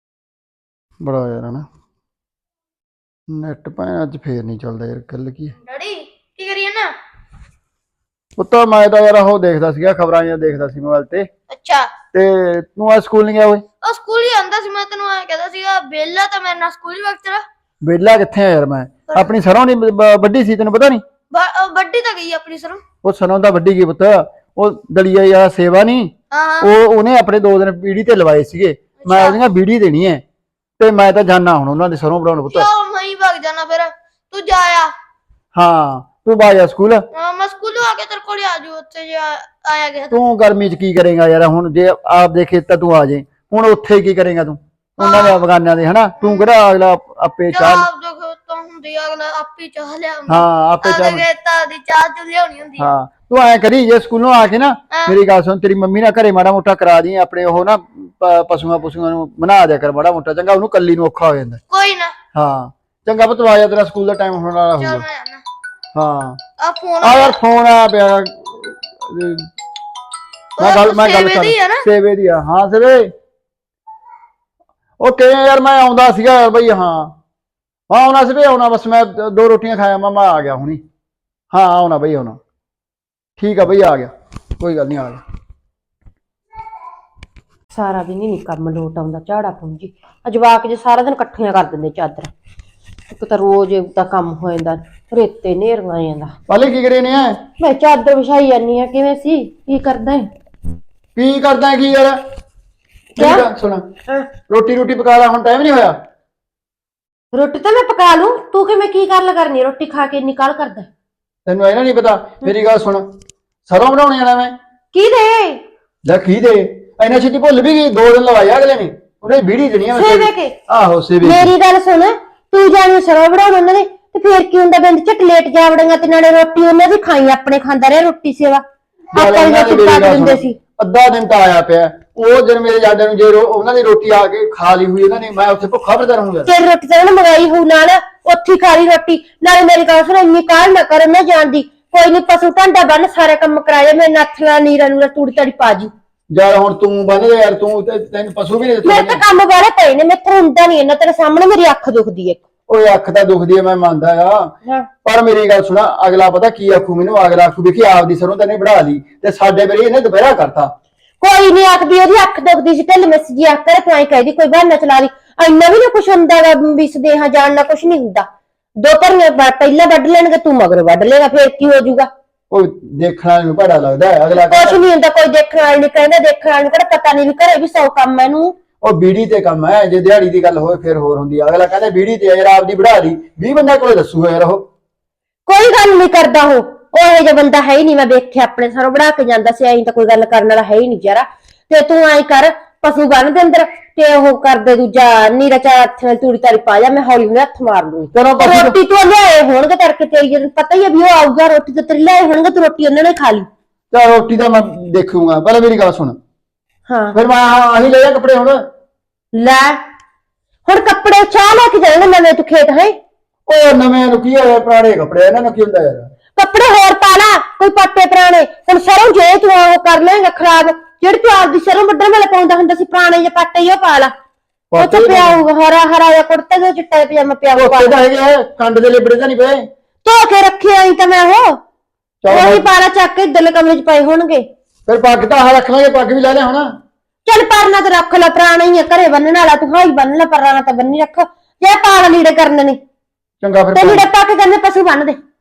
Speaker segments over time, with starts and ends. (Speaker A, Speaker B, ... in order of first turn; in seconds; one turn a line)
Speaker A: 1.0-1.6
Speaker A: 3.3-5.5
Speaker A: 8.4-11.3
Speaker A: 12.1-13.6
Speaker B: 13.9-17.3
Speaker A: 17.8-21.0
Speaker B: 21.4-22.7
Speaker A: 23.0-30.2
Speaker A: 30.8-32.6
Speaker B: 32.7-33.8
Speaker B: 34.3-34.8
Speaker A: 35.5-37.1
Speaker B: 37.2-39.8
Speaker A: 40.1-47.9
Speaker B: 47.9-50.1
Speaker A: 50.3-51.2
Speaker B: 51.3-52.6
Speaker A: 52.8-61.6
Speaker A: 62.3-65.0
Speaker A: 65.9-66.4
Speaker A: 67.0-69.5
Speaker A: 70.6-73.1
Speaker A: 75.0-77.1
Speaker A: 77.9-80.8
Speaker A: 81.5-82.4
Speaker A: 83.4-85.2
Speaker C: 87.7-92.3
Speaker C: 93.1-96.3
Speaker A: 96.5-97.4
Speaker C: 97.6-100.3
Speaker A: 101.2-102.2
Speaker A: 103.1-103.8
Speaker C: 103.2-103.5
Speaker A: 104.5-106.0
Speaker C: 107.3-110.9
Speaker A: 111.5-113.0
Speaker A: 113.7-114.5
Speaker C: 114.9-115.6
Speaker A: 116.0-121.5
Speaker C: 119.9-120.5
Speaker C: 121.2-130.6
Speaker A: 129.1-136.5
Speaker C: 136.4-145.9
Speaker A: 146.3-149.2
Speaker C: 148.8-152.4
Speaker A: 152.7-154.5
Speaker A: 155.0-160.7
Speaker C: 161.2-168.2
Speaker C: 168.8-172.1
Speaker A: 172.5-174.8
Speaker C: 174.3-178.6
Speaker A: 178.8-184.7
Speaker C: 185.5-203.5
Speaker A: 198.1-198.8
Speaker A: 203.9-206.2
Speaker C: 206.9-207.2
Speaker A: 207.1-208.6
Speaker C: 209.3-209.8
Speaker C: 210.7-213.0
Speaker A: 213.5-216.1
Speaker C: 216.3-224.1
Speaker A: 224.7-225.4
Speaker C: 224.8-228.0
Speaker A: 227.5-229.6
Speaker C: 230.0-231.6
Speaker A: 232.2-232.7
Speaker C: 232.3-234.4
Speaker A: 234.9-236.7
Speaker C: 237.2-242.8
Speaker A: 243.4-244.1
Speaker C: 243.7-245.2